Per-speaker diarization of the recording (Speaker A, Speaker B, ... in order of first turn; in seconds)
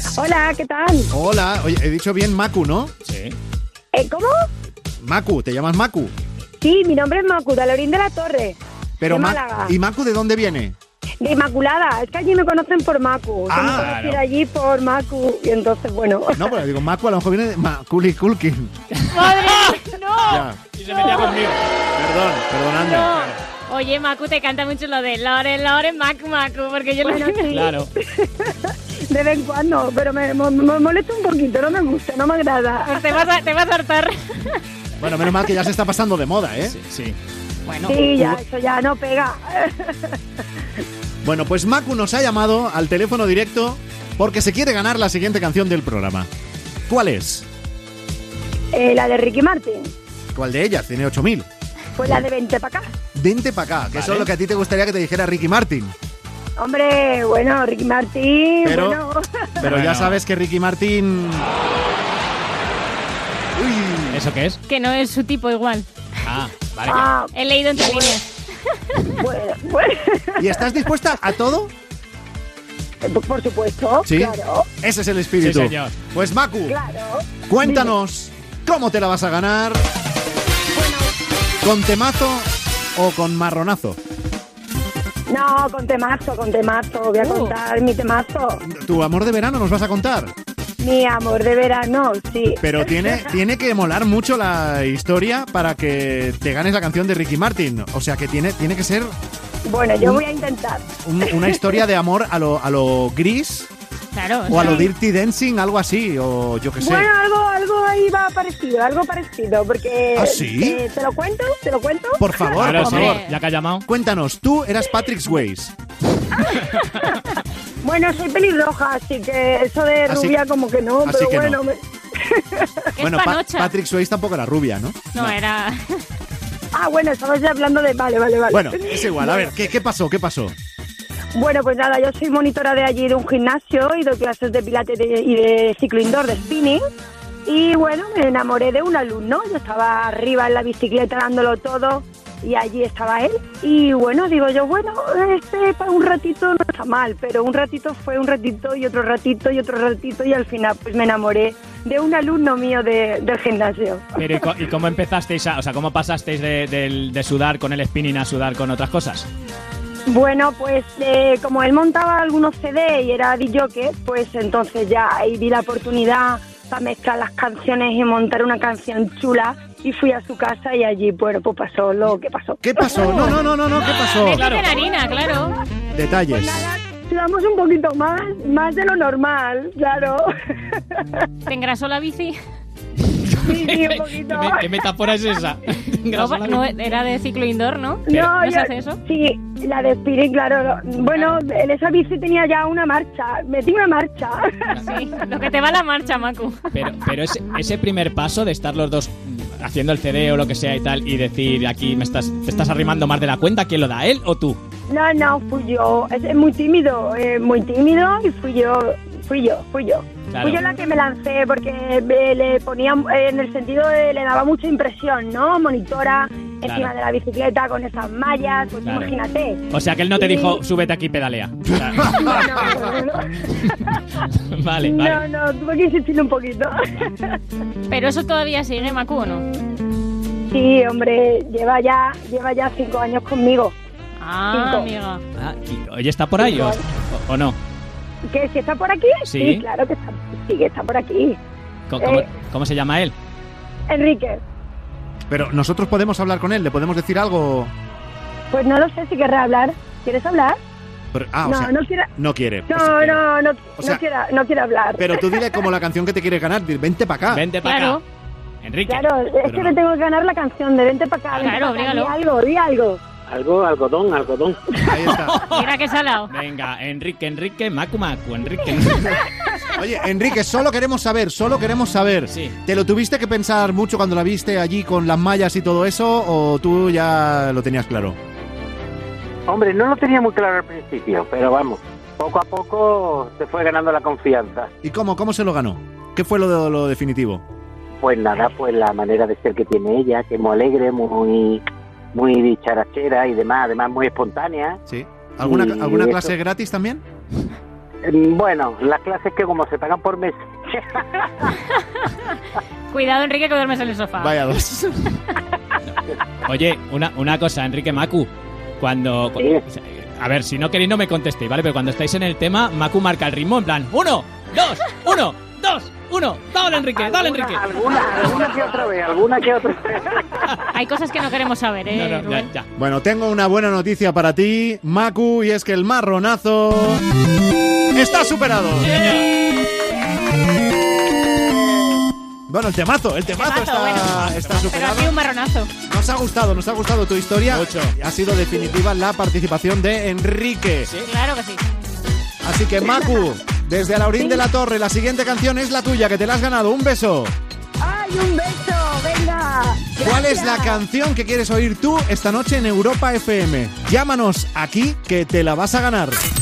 Speaker A: 0.2-1.1, 4.0-4.3, 6.6-9.8, 11.2-16.5, 27.0-33.1, 37.9-40.2, 48.7-49.9, 52.0-52.9, 56.6-59.5, 66.9-68.2, 69.2-70.8, 73.0-74.7, 76.7-77.9, 80.7-81.2, 85.3-88.6, 90.8-93.3, 99.7-101.8, 104.6-104.9, 106.8-112.7, 117.8-122.9, 126.7-129.5, 131.3-136.8, 137.5-154.4, 160.1-173.5, 176.3-181.3, 183.4-184.8, 188.1-195.0, 204.9-219.7, 220.2-220.6, 222.1-224.0, 224.8-227.4, 230.5-233.8, 234.5-234.9, 236.4-236.8, 238.3-241.4, 242.0-242.3, 243.9-244.4, 248.5-250.6, 251.4-252.1, 252.7-255.6, 258.9-263.0, 344.2-344.4, 347.8-350.8
Speaker B: 1.1-2.9, 5.0-6.1, 9.0-10.8, 13.5-13.9, 16.4-18.7, 20.2-20.6, 22.0-23.1, 35.0-36.8, 41.2-46.3, 46.9-47.5, 50.4-51.5, 53.1-55.9, 58.6-59.0, 59.6-61.5, 63.6-64.2, 70.4-71.7, 74.1-76.8, 77.5-79.8, 81.6-84.0, 88.7-90.3, 92.6-99.1, 101.0-103.7, 104.5-107.1, 110.2-110.8, 112.2-113.2, 113.9-115.8, 120.1-120.3, 121.0-121.6, 123.0-125.4, 128.5-130.5, 172.6-174.5, 175.9-176.6, 221.9-222.3, 245.3-247.7, 251.1-253.2, 255.0-257.4, 259.4-259.8, 264.8-265.4, 269.6-278.2, 284.8-287.4, 294.9-297.0, 304.2-305.2, 322.8-327.0, 327.9-329.0, 332.5-335.2, 335.9-340.9, 342.4-347.4, 350.0-356.2
Speaker C: 3.1-3.4, 13.7-14.2, 19.0-21.6, 23.1-23.4, 27.5-27.9, 36.7-37.2, 53.9-54.3, 59.6-60.2, 64.1-64.6, 66.2-67.1, 75.4-76.0, 112.6-113.8, 154.2-159.3, 174.2-174.8, 183.0-186.7, 188.1-188.4, 196.7-204.6, 210.3-210.6, 216.6-216.9, 218.8-219.1, 219.7-222.5, 224.3-225.2, 235.4-237.6, 239.3-239.7, 241.9-243.2, 257.3-258.0, 258.6-259.1, 261.3-261.6, 264.9-269.3, 305.9-317.7, 321.9-322.7, 328.9-329.2, 334.1-334.7, 337.5-337.9, 340.9-341.1
Speaker D: 19.1-20.4, 22.8-27.5, 32.9-34.6, 37.7-38.0, 64.7-65.9, 67.3-69.2, 87.2-87.5, 104.1-104.9, 112.8-113.4, 123.0-123.7, 125.1-126.0, 173.9-175.6, 181.5-182.4, 186.2-189.0, 194.9-196.6, 227.9-229.5, 234.2-235.2, 257.6-258.0, 261.4-262.2, 265.5-266.3, 302.9-304.5, 320.7-322.5, 333.3-335.7, 341.0-341.6
Speaker E: 263.3-264.8, 279.5-284.7, 288.0-291.6, 292.1-294.8, 295.4-296.3, 298.0-301.6, 317.0-320.5